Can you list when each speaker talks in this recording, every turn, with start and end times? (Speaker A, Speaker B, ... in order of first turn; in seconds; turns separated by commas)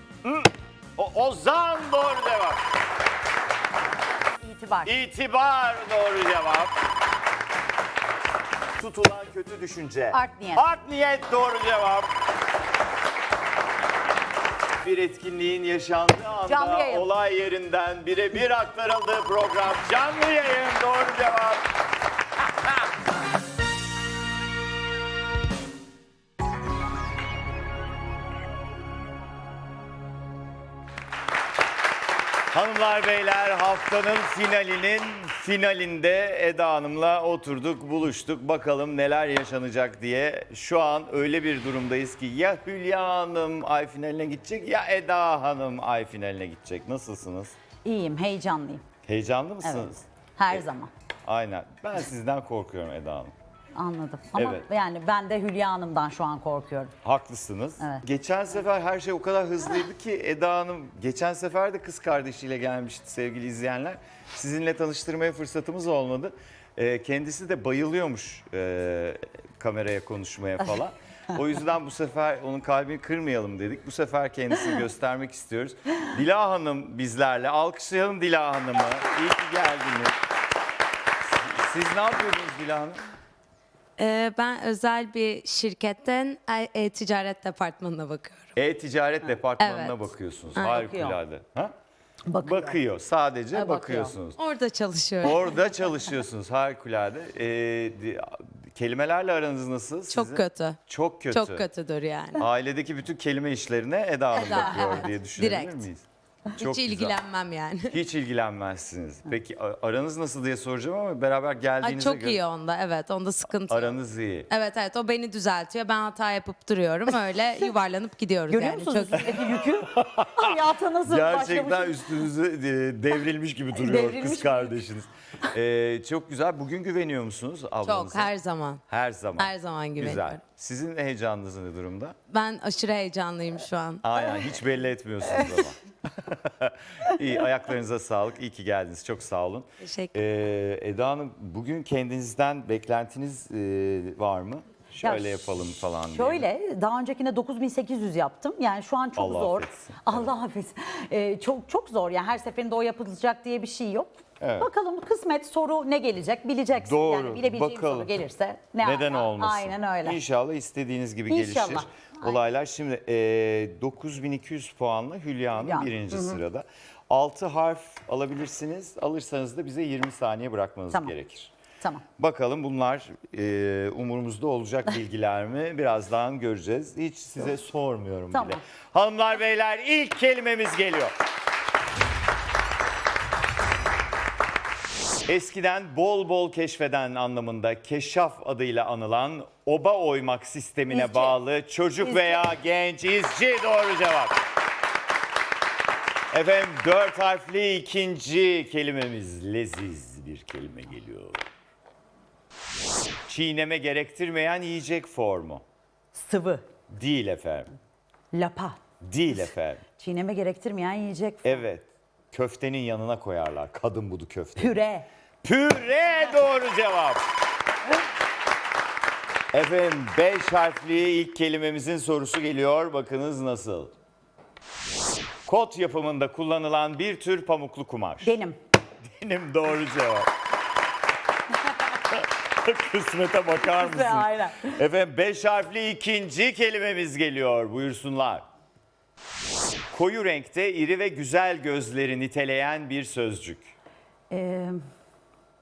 Speaker A: 0.2-2.6, Speaker B: 4.4-5.0, Speaker A: 4.8-6.7, Speaker A: 8.8-12.1, Speaker B: 10.1-10.7, Speaker A: 14.8-21.6, Speaker B: 16.5-17.1, Speaker A: 32.5-47.6, Speaker B: 47.8-48.9, Speaker A: 49.1-50.7, Speaker B: 49.6-50.9, Speaker A: 51.2-53.3, Speaker B: 53.8-56.9, Speaker A: 54.4-54.7, Speaker A: 57.0-80.2, Speaker B: 57.8-58.0, Speaker A: 81.4-83.0, Speaker C: 84.0-88.5, Speaker A: 88.6-91.7, Speaker C: 89.6-90.8, Speaker B: 90.6-91.2, Speaker B: 92.3-92.8, Speaker A: 92.4-94.4, Speaker B: 93.5-94.2, Speaker C: 94.4-95.7, Speaker A: 95.2-101.7, Speaker C: 100.1-102.5, Speaker A: 102.4-106.0, Speaker C: 104.3-105.9, Speaker C: 106.5-108.0, Speaker A: 106.6-107.2, Speaker A: 107.9-112.4, Speaker C: 111.8-119.4, Speaker A: 113.7-114.5, Speaker B: 118.5-122.1, Speaker A: 119.2-128.3, Speaker B: 123.7-124.8, Speaker C: 127.8-128.8, Speaker A: 128.9-132.2, Speaker C: 129.4-130.4, Speaker C: 132.3-134.5, Speaker A: 134.0-146.5, Speaker C: 139.8-140.2, Speaker B: 145.0-145.4, Speaker B: 146.1-160.2, Speaker A: 149.2-150.3, Speaker A: 154.4-154.7, Speaker A: 156.8-158.1, Speaker A: 158.8-171.5, Speaker B: 161.3-162.4, Speaker B: 165.6-166.4, Speaker A: 172.2-181.1, Speaker B: 178.3-178.6, Speaker A: 185.3-194.4, Speaker B: 190.9-191.4, Speaker B: 192.0-192.4, Speaker A: 196.3-201.4, Speaker A: 203.3-205.6, Speaker B: 206.1-206.6, Speaker A: 206.9-207.7, Speaker B: 208.3-208.8, Speaker A: 209.0-209.8, Speaker B: 210.0-211.6, Speaker A: 211.4-214.8, Speaker B: 214.6-215.1, Speaker A: 215.4-217.2, Speaker A: 219.5-223.9, Speaker A: 225.5-228.4, Speaker B: 228.2-228.6, Speaker A: 229.1-230.3, Speaker A: 232.1-238.4, Speaker B: 233.6-234.8, Speaker A: 239.9-243.7, Speaker B: 244.3-244.8